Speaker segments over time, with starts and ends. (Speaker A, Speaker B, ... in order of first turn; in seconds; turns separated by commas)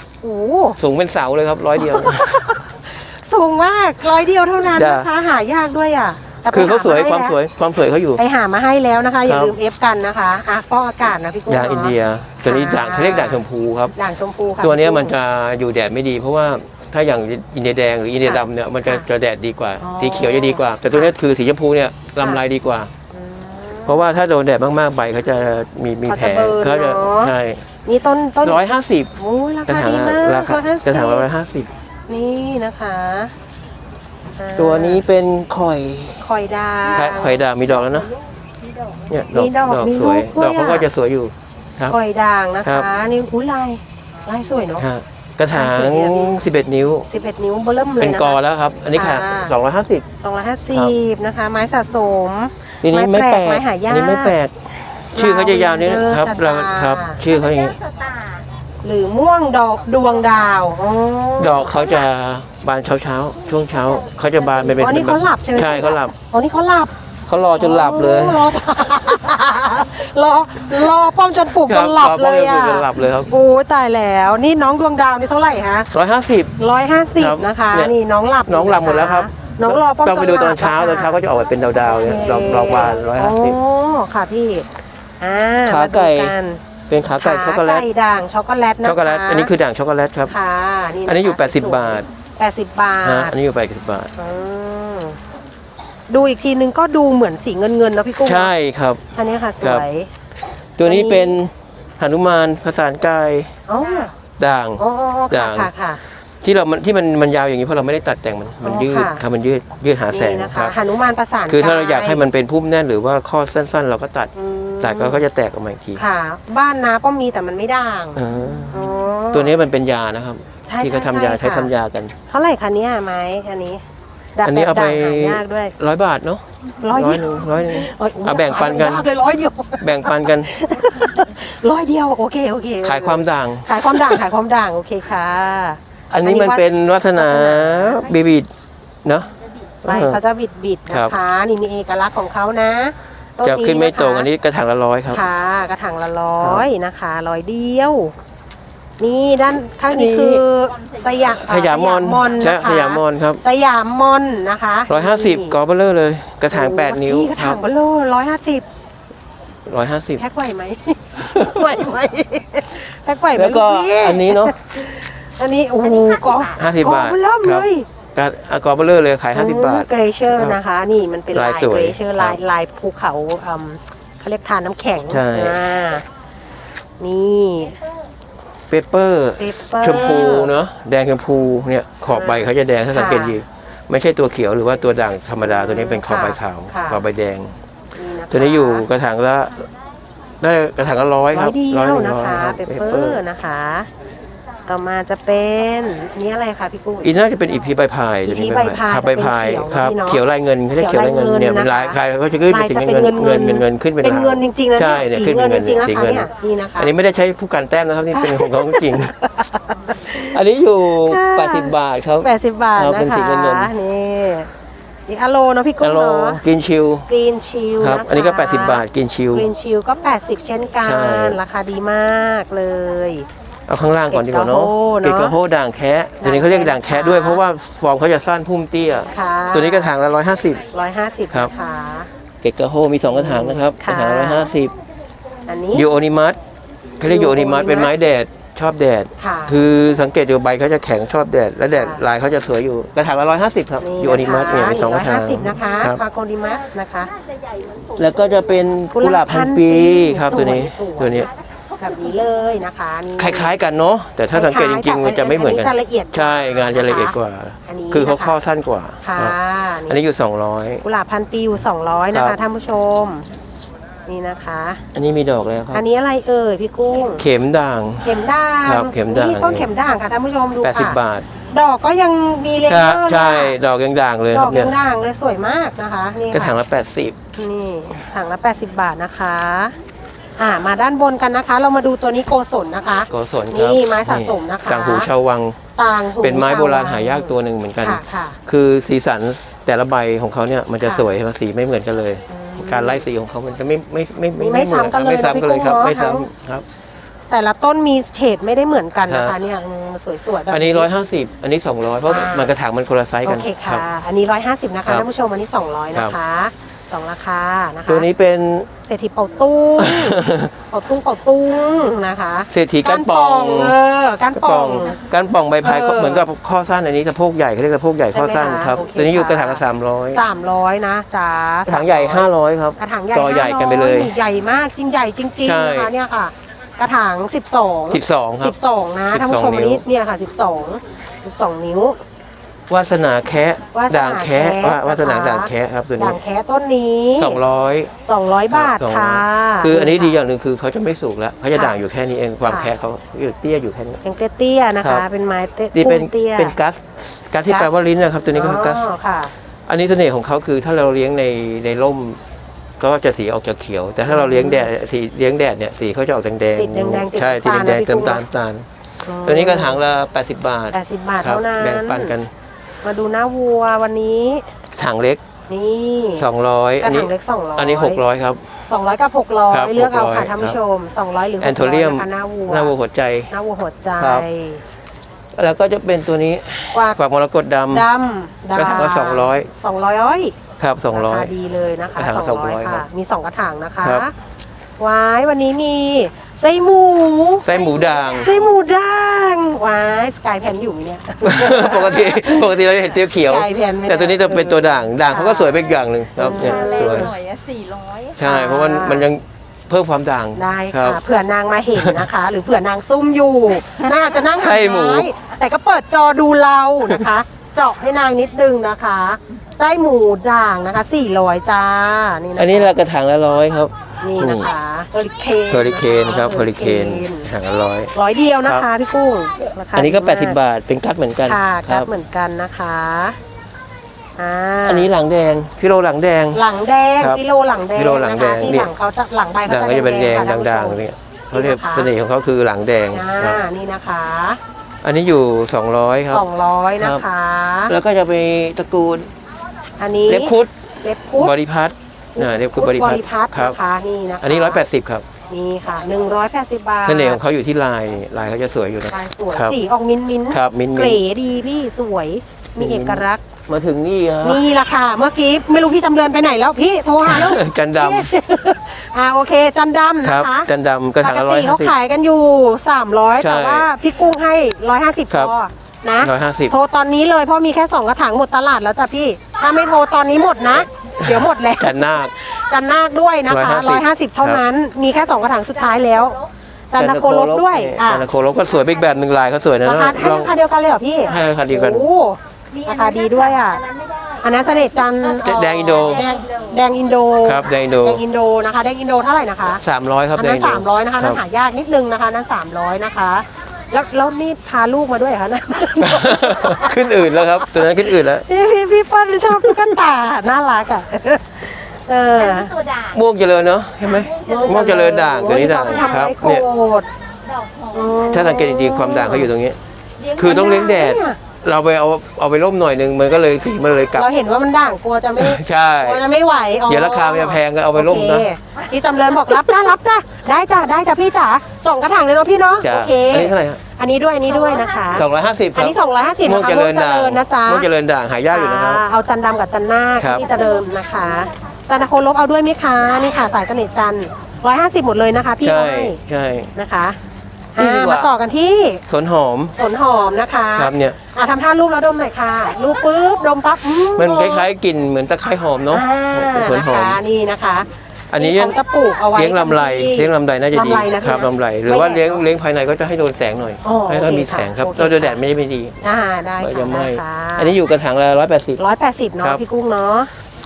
Speaker A: 0.2-0.8, Speaker B: 0.8-2.5, Speaker A: 1.8-7.3, Speaker B: 4.7-5.1, Speaker B: 6.5-8.2, Speaker A: 8.2-13.4, Speaker B: 9.2-9.5, Speaker B: 11.5-13.9, Speaker A: 13.9-15.1, Speaker B: 14.6-22.9, Speaker A: 18.2-19.1, Speaker A: 19.8-21.1, Speaker A: 23.1-24.0, Speaker B: 23.9-27.6, Speaker A: 26.1-27.3, Speaker A: 27.8-31.3, Speaker B: 28.4-29.1, Speaker B: 29.7-31.7, Speaker A: 32.1-33.3, Speaker A: 34.4-35.0, Speaker B: 34.5-36.2, Speaker A: 36.2-37.4, Speaker B: 36.9-38.1, Speaker B: 39.1-41.9, Speaker A: 39.3-40.9, Speaker A: 41.9-44.9, Speaker B: 44.8-47.1, Speaker A: 45.5-46.4, Speaker A: 47.1-48.4, Speaker B: 48.0-50.0, Speaker A: 48.9-49.5, Speaker A: 50.2-54.4, Speaker B: 52.8-57.8, Speaker A: 55.1-57.2, Speaker C: 57.8-58.4, Speaker A: 58.8-62.0, Speaker B: 61.4-66.1, Speaker A: 64.6-66.9, Speaker B: 67.2-68.6, Speaker A: 67.6-75.9, Speaker B: 71.7-73.3, Speaker B: 75.9-76.5, Speaker A: 76.6-81.2, Speaker B: 77.2-77.9, Speaker B: 78.5-83.6, Speaker A: 81.9-84.7, Speaker A: 85.2-86.6, Speaker B: 85.6-86.3, Speaker B: 86.9-87.8, Speaker A: 87.2-89.5, Speaker B: 88.8-90.3, Speaker A: 90.3-93.3, Speaker B: 91.0-92.1, Speaker B: 93.0-94.1, Speaker A: 94.1-95.2, Speaker A: 96.1-98.5, Speaker B: 98.2-99.0, Speaker A: 99.1-100.1, Speaker B: 99.6-99.8, Speaker B: 100.8-103.5, Speaker A: 100.8-101.4, Speaker A: 103.7-104.1, Speaker B: 104.4-105.7, Speaker A: 104.8-106.0, Speaker B: 106.4-110.8, Speaker A: 108.6-109.2, Speaker A: 110.1-112.2, Speaker B: 111.5-116.0, Speaker A: 114.3-115.2, Speaker A: 116.0-118.2, Speaker B: 118.1-122.1, Speaker A: 118.7-119.5, Speaker A: 120.7-121.7, Speaker A: 122.3-123.8, Speaker A: 124.3-125.7, Speaker B: 124.4-129.1, Speaker A: 126.8-138.1, Speaker B: 129.8-130.5, Speaker B: 132.8-134.2, Speaker B: 136.1-138.5, Speaker B: 139.0-139.3, Speaker B: 139.8-140.2, Speaker A: 139.8-144.3, Speaker B: 140.9-141.1, Speaker B: 143.4-145.2, Speaker A: 145.1-148.1, Speaker B: 146.4-146.7, Speaker A: 149.0-155.6, Speaker B: 149.9-150.4, Speaker B: 151.3-153.4, Speaker B: 154.9-157.6, Speaker A: 156.5-158.7, Speaker B: 159.7-160.2, Speaker A: 160.2-167.9, Speaker B: 163.3-164.5, Speaker B: 166.6-170.6, Speaker A: 169.3-176.0, Speaker B: 171.3-172.4, Speaker B: 175.1-175.6, Speaker A: 177.0-177.8, Speaker B: 178.7-187.5, Speaker A: 179.4-180.5, Speaker A: 182.1-183.4, Speaker A: 185.4-187.0, Speaker A: 187.9-188.9, Speaker B: 188.3-189.7, Speaker B: 190.4-193.2, Speaker A: 191.3-193.9, Speaker A: 194.7-197.1, Speaker B: 197.0-209.1, Speaker A: 198.2-200.2, Speaker A: 200.7-202.0, Speaker A: 202.5-206.9, Speaker A: 208.1-210.4, Speaker B: 210.1-213.7, Speaker A: 210.9-214.5, Speaker A: 215.1-216.4, Speaker B: 215.8-217.1, Speaker A: 217.1-218.8, Speaker B: 217.8-219.5, Speaker A: 219.3-223.2, Speaker B: 220.8-221.4, Speaker B: 223.7-230.6, Speaker A: 224.1-225.3, Speaker A: 226.2-227.4, Speaker A: 229.1-229.9, Speaker A: 230.7-232.1, Speaker B: 232.4-234.7, Speaker A: 233.1-234.5, Speaker A: 235.4-235.9, Speaker B: 235.7-236.4, Speaker B: 237.0-246.0, Speaker A: 237.0-238.1, Speaker A: 239.2-239.6, Speaker A: 241.7-242.0, Speaker A: 243.8-247.1, Speaker C: 247.2-248.4, Speaker B: 248.0-251.3, Speaker A: 248.9-253.6, Speaker B: 253.2-259.3, Speaker A: 254.3-258.4, Speaker A: 259.0-260.0, Speaker B: 259.9-260.8, Speaker A: 260.8-263.2, Speaker B: 262.1-262.4, Speaker A: 264.1-264.8, Speaker B: 264.9-265.8, Speaker A: 265.7-267.2, Speaker B: 267.2-269.7, Speaker A: 268.0-271.0, Speaker B: 270.6-271.2, Speaker A: 271.5-273.6, Speaker B: 272.7-274.7, Speaker A: 274.3-276.5, Speaker B: 276.3-277.1, Speaker A: 277.3-279.8, Speaker A: 280.4-285.1, Speaker B: 283.1-285.6, Speaker A: 285.8-288.4, Speaker B: 286.2-296.6, Speaker A: 290.8-291.1, Speaker A: 292.3-293.0, Speaker A: 294.4-296.2, Speaker A: 297.3-300.9, Speaker B: 299.1-299.3, Speaker B: 300.5-303.8, Speaker A: 302.1-302.5, Speaker A: 303.2-308.1, Speaker B: 307.9-308.7, Speaker A: 308.9-315.0, Speaker B: 309.8-310.5, Speaker B: 312.5-313.8, Speaker B: 314.3-320.2, Speaker A: 315.6-316.2, Speaker A: 318.1-332.0, Speaker B: 321.7-324.1, Speaker B: 325.4-325.9, Speaker B: 327.9-328.5, Speaker B: 329.1-329.8, Speaker B: 332.7-336.2, Speaker A: 333.7-337.4, Speaker B: 337.2-337.9, Speaker A: 338.0-340.2, Speaker B: 338.5-344.0, Speaker A: 341.5-341.8, Speaker A: 342.4-342.7, Speaker A: 344.0-346.6, Speaker B: 344.8-345.0, Speaker B: 345.7-348.8, Speaker A: 347.5-349.3, Speaker B: 349.7-352.2, Speaker B: 352.8-358.6, Speaker A: 354.1-354.7, Speaker A: 356.6-358.2, Speaker A: 359.0-359.8, Speaker B: 359.2-362.3, Speaker A: 360.7-362.1, Speaker A: 362.8-364.5, Speaker B: 364.7-365.2, Speaker A: 365.5-366.3, Speaker B: 366.2-368.4, Speaker A: 366.8-368.0, Speaker A: 368.7-372.7, Speaker B: 369.5-370.6, Speaker B: 371.4-373.3, Speaker A: 373.3-374.6, Speaker B: 374.0-374.3, Speaker B: 375.3-377.9, Speaker A: 376.7-377.0, Speaker A: 377.7-380.4, Speaker B: 378.5-379.5, Speaker B: 380.6-381.3, Speaker A: 380.9-384.1, Speaker B: 382.0-382.9, Speaker A: 384.8-387.5, Speaker B: 387.4-388.3, Speaker C: 387.8-388.1, Speaker A: 388.1-395.6, Speaker B: 391.2-397.1, Speaker A: 396.2-397.1, Speaker C: 396.7-398.2, Speaker B: 398.2-401.0, Speaker A: 398.2-399.1, Speaker A: 400.4-412.7, Speaker B: 401.8-402.1, Speaker B: 404.3-405.1, Speaker B: 412.4-414.5, Speaker A: 414.0-417.3, Speaker B: 415.5-417.9, Speaker A: 417.9-420.4, Speaker B: 419.7-421.9, Speaker A: 421.2-423.2, Speaker A: 424.2-424.9, Speaker B: 424.6-426.4, Speaker A: 426.3-431.9, Speaker B: 427.7-428.7, Speaker B: 429.5-433.4, Speaker A: 432.9-434.4, Speaker B: 434.8-436.2, Speaker A: 436.1-437.7, Speaker B: 436.8-437.0, Speaker B: 437.7-439.1, Speaker A: 439.8-441.3, Speaker B: 440.1-440.5, Speaker B: 441.2-443.6, Speaker A: 442.1-444.6, Speaker B: 444.2-445.0, Speaker A: 445.3-447.2, Speaker B: 446.8-449.6, Speaker A: 448.9-453.2, Speaker B: 450.3-451.0, Speaker B: 452.6-454.4, Speaker A: 454.2-460.5, Speaker B: 457.1-458.1, Speaker B: 460.0-461.7, Speaker A: 461.0-478.1, Speaker B: 463.2-463.7, Speaker B: 466.0-466.5, Speaker B: 471.0-472.1, Speaker B: 473.3-474.4, Speaker B: 476.8-480.3, Speaker A: 479.6-483.6, Speaker B: 481.1-481.9, Speaker C: 482.5-484.4, Speaker A: 484.2-489.6, Speaker B: 485.2-486.1, Speaker B: 487.2-488.0, Speaker B: 489.6-491.2, Speaker A: 490.1-496.8, Speaker B: 495.8-498.2, Speaker A: 497.4-502.6, Speaker C: 502.3-502.9, Speaker B: 502.9-506.4, Speaker C: 504.0-504.4, Speaker A: 504.2-506.9, Speaker C: 507.3-507.9, Speaker A: 507.7-509.3, Speaker B: 508.1-509.6, Speaker A: 510.1-511.2, Speaker B: 510.1-514.1, Speaker A: 514.0-527.7, Speaker B: 515.2-516.0, Speaker B: 516.7-518.3, Speaker B: 522.6-523.6, Speaker B: 524.9-528.8, Speaker A: 528.3-536.0, Speaker B: 530.0-530.3, Speaker B: 535.4-536.5, Speaker A: 536.5-537.0, Speaker A: 537.5-538.8, Speaker B: 537.6-538.1, Speaker B: 538.9-539.5, Speaker A: 539.5-544.5, Speaker B: 540.5-541.0, Speaker B: 544.0-547.0, Speaker A: 545.7-552.2, Speaker B: 548.1-548.6, Speaker B: 549.1-555.8, Speaker A: 553.6-555.2, Speaker A: 555.8-557.5, Speaker B: 556.4-558.6, Speaker A: 558.6-560.1